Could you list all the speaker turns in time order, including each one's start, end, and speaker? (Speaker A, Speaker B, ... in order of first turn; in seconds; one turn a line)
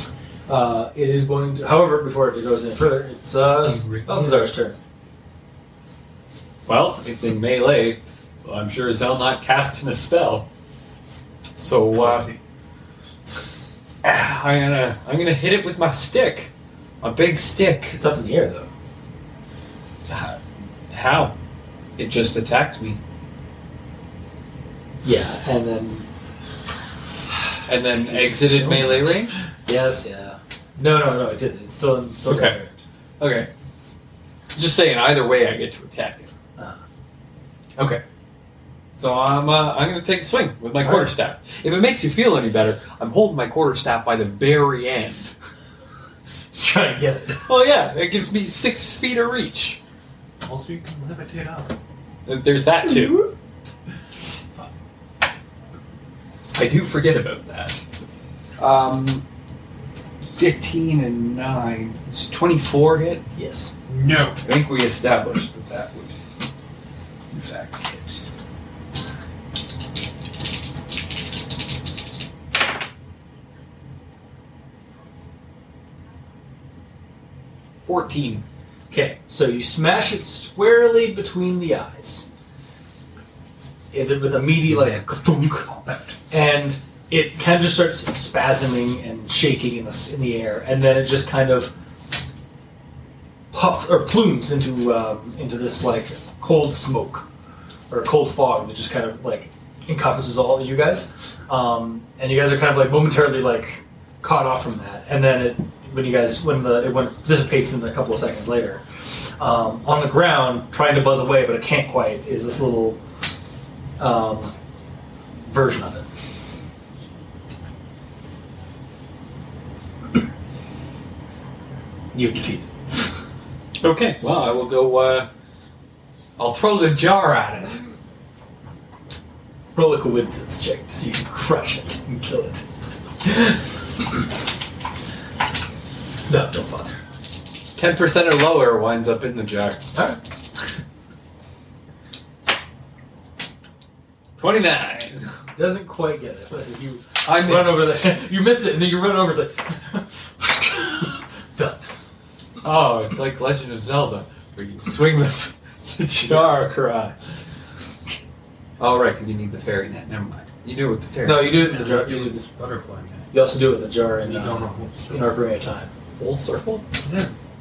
Speaker A: 0.5-4.8
Speaker B: 3.6-4.4
Speaker C: 6.7-10.4
Speaker C: 11.5-12.3
Speaker B: 11.9-12.4
Speaker C: 14.0-16.5
Speaker C: 17.0-18.0
Speaker A: 17.9-18.7
Speaker C: 20.1-20.4
Speaker C: 20.9-21.3
Speaker C: 22.0-23.0
Speaker A: 25.0-26.1
Speaker C: 27.7-29.4
Speaker A: 28.2-29.0
Speaker A: 29.6-32.8
Speaker C: 32.3-32.6
Speaker C: 33.2-33.5
Speaker C: 34.5-36.3
Speaker C: 37.8-38.0
Speaker C: 39.0-45.3
Speaker A: 40.8-41.1
Speaker A: 46.5-47.5
Speaker C: 47.5-49.8
Speaker B: 50.4-51.7
Speaker C: 52.2-53.3
Speaker A: 52.8-53.3
Speaker C: 56.5-57.8
Speaker C: 58.6-59.2
Speaker C: 60.4-63.2
Speaker A: 63.3-63.7
Speaker B: 63.9-64.4
Speaker C: 64.4-66.1
Speaker C: 67.3-68.2
Speaker C: 77.8-78.4
Speaker A: 78.9-82.3
Speaker A: 83.9-85.7
Speaker B: 84.7-86.2
Speaker A: 86.3-91.7
Speaker A: 93.5-97.2
Speaker A: 97.9-108.8
Speaker A: 109.4-113.0
Speaker A: 114.0-114.5
Speaker A: 115.5-116.0
Speaker A: 122.1-122.7
Speaker C: 123.8-125.3
Speaker C: 126.4-127.8
Speaker A: 129.7-133.6
Speaker A: 136.3-137.0
Speaker C: 137.7-139.8
Speaker A: 139.9-140.2
Speaker C: 144.4-145.3
Speaker A: 145.5-151.9
Speaker C: 147.2-148.0
Speaker C: 152.6-157.2
Speaker A: 156.2-157.1
Speaker C: 158.8-161.8
Speaker A: 161.2-162.4
Speaker B: 161.6-163.3
Speaker A: 163.3-165.9
Speaker B: 164.2-165.3
Speaker C: 166.2-166.8
Speaker B: 167.0-167.3